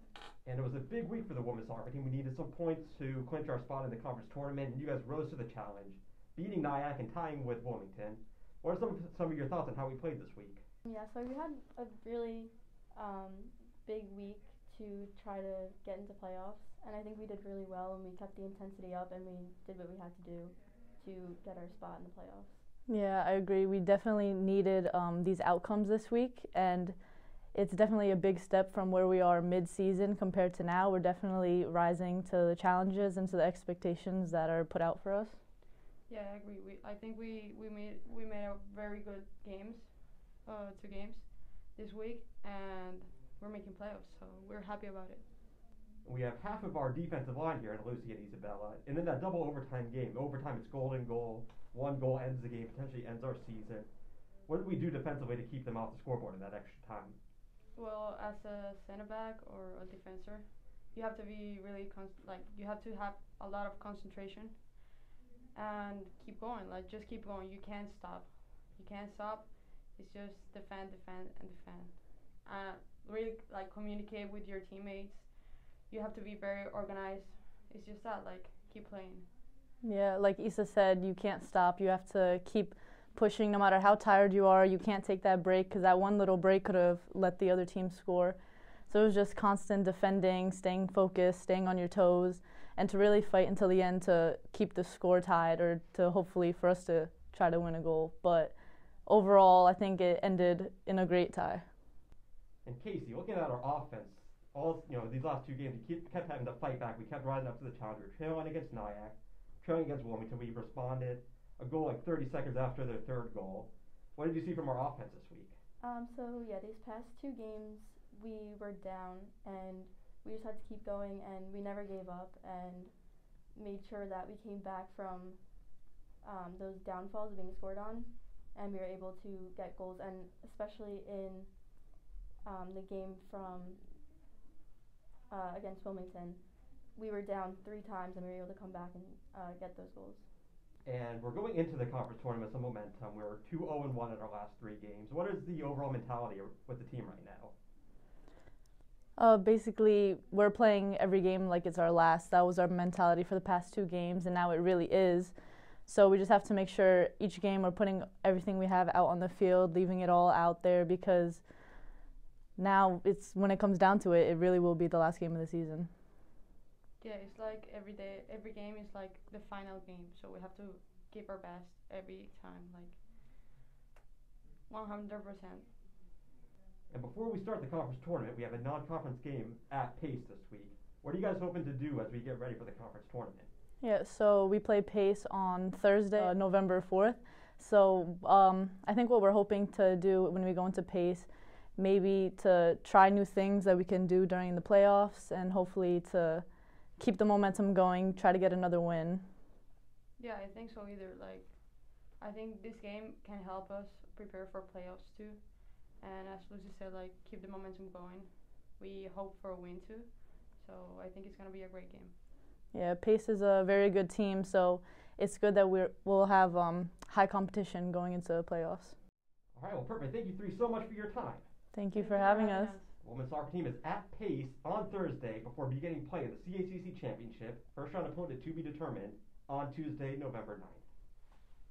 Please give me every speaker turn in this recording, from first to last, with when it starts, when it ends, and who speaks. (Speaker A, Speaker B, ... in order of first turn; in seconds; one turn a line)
Speaker A: 0.4-10.6
Speaker B: 10.8-22.6
Speaker C: 22.9-35.4
Speaker D: 36.1-45.3
Speaker A: 46.0-57.2
Speaker D: 57.7-64.9
Speaker D: 65.5-79.3
Speaker C: 79.8-101.7
Speaker A: 102.7-115.6
Speaker B: 115.8-134.0
Speaker B: 135.3-140.3
Speaker A: 140.8-147.5
Speaker C: 149.2-162.0
Speaker C: 162.6-165.9
Speaker D: 167.0-173.3
Speaker D: 174.7-175.8
Speaker A: 176.9-183.5
Speaker C: 183.8-199.3
Speaker D: 200.2-212.2
Speaker C: 212.7-219.0
Speaker A: 219.5-221.4
Speaker C: 221.7-222.8
Speaker D: 221.9-222.9
Speaker A: 223.0-230.8